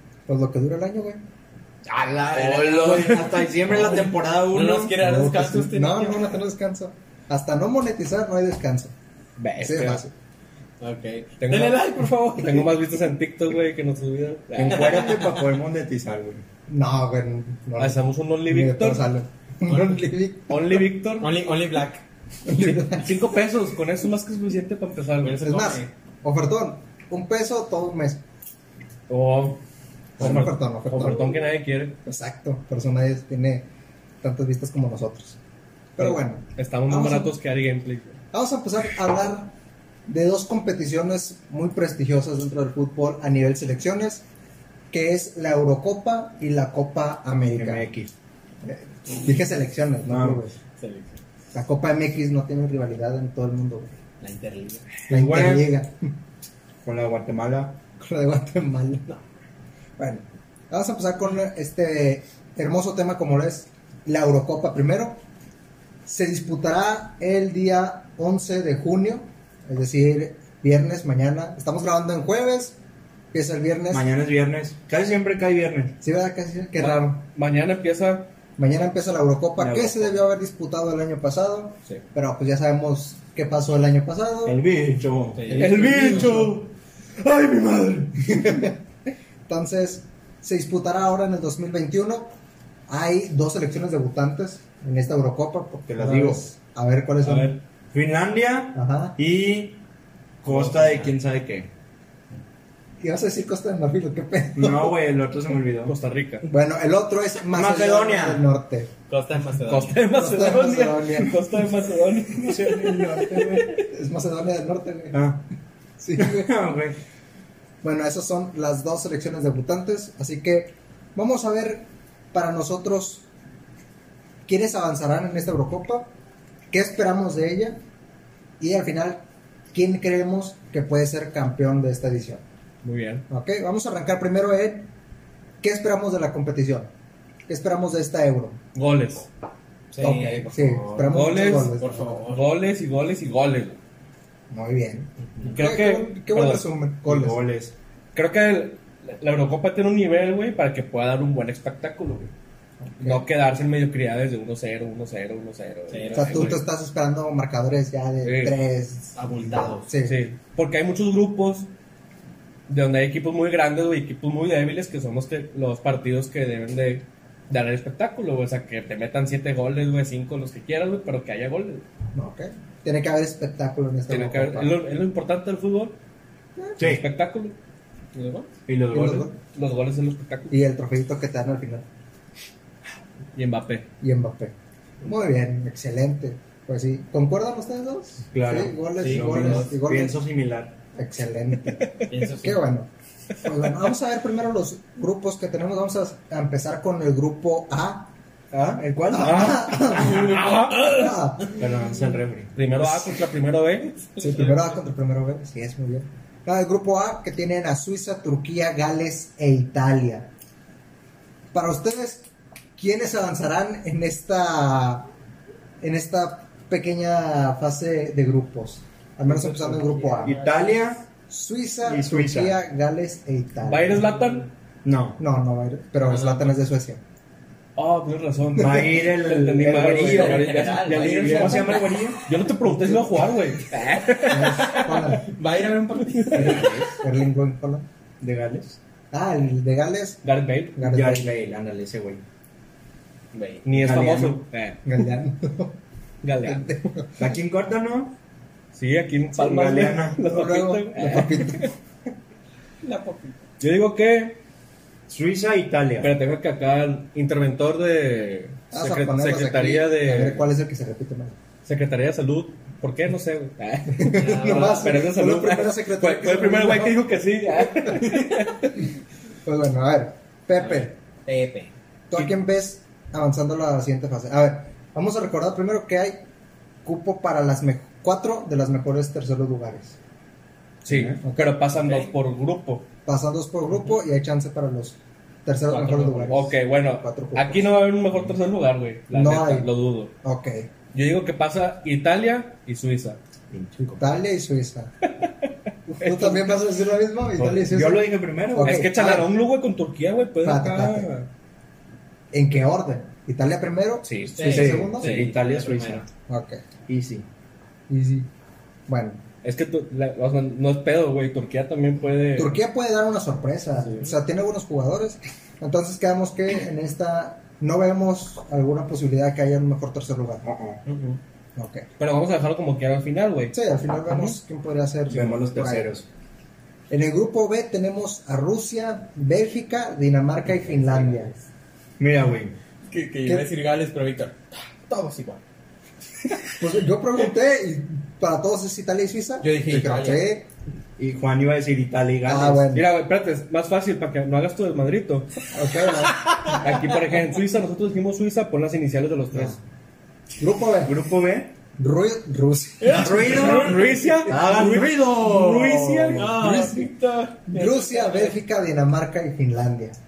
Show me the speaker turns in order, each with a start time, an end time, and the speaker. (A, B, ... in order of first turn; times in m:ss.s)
0:00.3-0:01.2 A
0:01.8-0:06.4 B
0:02.3-0:05.0 C
0:05.0-0:08.9 A
0:09.4-0:10.0 D
0:09.6-0:10.1 A
0:10.8-0:12.7 B
0:11.4-0:15.0 D
0:14.5-0:16.4 C
0:14.7-0:15.4 B
0:16.7-0:20.8 A
0:17.8-0:19.0 D
0:19.7-0:20.0 B
0:20.5-0:21.3 D
0:21.2-0:22.0 B
0:22.4-0:23.1 A
0:22.5-0:25.4 D
0:25.2-0:25.9 B
0:25.4-0:28.2 A
0:29.1-0:29.6 D
0:30.2-0:31.3 A
0:30.2-0:32.0 D
0:32.0-0:33.7 A
0:34.2-0:35.4 A
0:36.0-0:37.3 A
0:36.0-0:38.2 D
0:38.3-0:39.5 A
0:40.1-0:44.2 A
0:44.9-0:47.8 A
0:47.5-0:48.1 C
0:48.6-0:50.6 A
0:50.1-0:50.4 C
0:50.8-0:51.2 B
0:51.5-0:54.0 A
0:54.2-0:54.8 B
0:55.1-0:55.7 C
0:55.1-0:56.1 A
0:56.8-0:57.8 C
0:58.0-0:59.0 A
1:00.0-1:05.2 A
1:06.0-1:12.8 A
1:13.3-1:14.0 A
1:13.9-1:16.0 C
1:16.0-1:17.2 A
1:16.8-1:18.3 D
1:18.6-1:24.6 A
1:19.6-1:20.1 C
1:24.4-1:26.4 C
1:25.3-1:26.3 B
1:25.5-1:26.7 D
1:25.7-1:26.6 A
1:27.2-1:28.1 D
1:28.3-1:28.8 A
1:29.5-1:32.3 A
1:32.9-1:37.6 A
1:35.9-1:36.4 C
1:37.2-1:37.6 D
1:37.9-1:39.8 C
1:38.7-1:39.2 A
1:40.4-1:41.7 C
1:40.4-1:41.1 B
1:43.0-1:45.0 A
1:44.5-1:45.9 C
1:45.8-1:46.5 D
1:46.4-1:48.9 A
1:47.5-1:48.5 C
1:49.1-1:50.0 B
1:49.7-1:53.7 D
1:50.1-1:51.4 A
1:52.3-1:53.8 C
1:53.8-1:55.2 A
1:55.1-1:55.4 C
1:56.0-1:56.5 A
1:56.2-1:57.0 C
1:57.8-2:03.2 A
2:04.4-2:06.1 A
2:06.7-2:07.8 A
2:08.6-2:12.4 A
2:12.8-2:13.2 D
2:13.3-2:14.9 A
2:15.6-2:16.9 A
2:17.5-2:18.6 A
2:18.7-2:19.3 D
2:19.9-2:21.2 B
2:20.0-2:22.3 A
2:21.1-2:21.7 D
2:21.8-2:22.4 B
2:22.3-2:23.8 D
2:24.5-2:27.4 A
2:25.3-2:25.5 B
2:25.5-2:26.6 D
2:27.0-2:27.7 C
2:28.1-2:32.3 D
2:32.8-2:33.2 A
2:33.0-2:36.6 D
2:35.9-2:36.6 B
2:36.2-2:39.1 A
2:38.2-2:38.6 D
2:39.1-2:39.9 B
2:39.9-2:40.2 A
2:40.0-2:41.7 D
2:42.7-2:51.8 D
2:52.1-2:54.7 A
2:54.1-2:56.0 D
2:56.8-2:57.0 C
2:56.8-2:57.6 D
2:58.1-2:58.5 B
2:58.7-2:59.3 C
2:58.9-2:59.4 A
2:59.5-3:00.6 D
3:00.5-3:01.8 A
3:03.3-3:03.8 D
3:04.0-3:10.2 A
3:08.3-3:10.7 C
3:09.0-3:09.7 B
3:10.9-3:11.8 A
3:11.8-3:12.1 D
3:12.1-3:12.6 B
3:12.4-3:12.9 A
3:13.4-3:21.6 A
3:18.7-3:20.0 C
3:19.2-3:21.1 D
3:21.5-3:22.5 C
3:22.6-3:23.9 D
3:24.2-3:30.3 A
3:31.5-3:32.2 A
3:32.8-3:35.1 A
3:35.8-3:40.3 A
3:39.3-3:40.7 B
3:40.2-3:41.0 C
3:41.3-3:44.0 A
3:41.8-3:42.6 C
3:43.6-3:44.5 D
3:44.8-3:45.2 C
3:45.2-3:47.0 A
3:46.0-3:46.5 D
3:47.8-3:55.2 D
3:48.5-3:52.2 C
3:49.9-3:51.8 B
3:52.6-3:53.3 A
3:54.3-3:55.3 A
3:55.3-3:56.9 B
3:56.3-3:56.8 D
3:56.3-3:57.8 A
3:58.2-3:58.8 C
3:59.1-4:00.2 A
4:00.2-4:00.8 D
4:00.8-4:01.3 A
4:00.8-4:02.2 C
4:03.3-4:03.7 B
4:03.6-4:04.8 D
4:03.7-4:04.5 C
4:04.8-4:05.8 A
4:06.2-4:06.7 D
4:06.4-4:07.2 A
4:07.2-4:08.2 C
4:08.7-4:11.7 D
4:09.3-4:10.2 C
4:10.1-4:11.7 A
4:12.8-4:13.4 B
4:13.6-4:14.4 D
4:15.1-4:16.2 C
4:16.0-4:20.5 D
4:18.7-4:21.4 A
4:21.6-4:28.9 D
4:24.0-4:28.4 A
4:24.1-4:24.9 B
4:29.4-4:30.9 A
4:30.6-4:31.7 B
4:32.1-4:36.2 A
4:36.8-4:40.0 A
4:40.8-4:42.9 D
4:40.9-4:41.2 C
4:41.2-4:41.5 A
4:43.0-4:47.8 A
4:45.7-4:50.1 D
4:49.1-4:49.7 A
4:50.2-4:50.7 A
4:50.9-4:53.2 D
4:53.5-4:54.1 C
4:53.8-4:54.9 A
4:55.9-4:59.3 A
4:56.0-4:56.6 D
4:57.4-4:58.8 C
4:58.5-5:01.3 D
5:00.4-5:01.1 A
5:02.3-5:05.3 A
5:04.0-5:04.6 D
5:04.3-5:06.0 B
5:04.4-5:06.1 C
5:06.3-5:06.6 A
5:06.9-5:07.3 C
5:07.9-5:08.3 A
5:08.9-5:09.2 A
5:09.4-5:12.6 D
5:12.3-5:20.4 A
5:20.4-5:20.8 C
5:20.9-5:21.2 B
5:21.6-5:21.9 A
5:22.0-5:23.6 D
5:23.5-5:25.9 A
5:25.1-5:26.1 C
5:26.9-5:31.3 A
5:30.6-5:31.4 B
5:32.0-5:32.6 C
5:32.9-5:35.4 B
5:36.6-5:40.5 A
5:39.4-5:40.2 B
5:41.0-5:42.8 C
5:42.2-5:42.8 A
5:42.7-5:45.3 D
5:45.5-5:46.6 A
5:46.2-5:46.6 B
5:46.6-5:49.6 D
5:49.3-5:49.6 A
5:50.4-5:51.0 A
5:50.8-5:51.5 C
5:51.8-5:53.6 A
5:52.9-5:56.9 D
5:52.9-5:56.6 C
5:56.1-5:58.4 B
5:57.5-6:00.0 A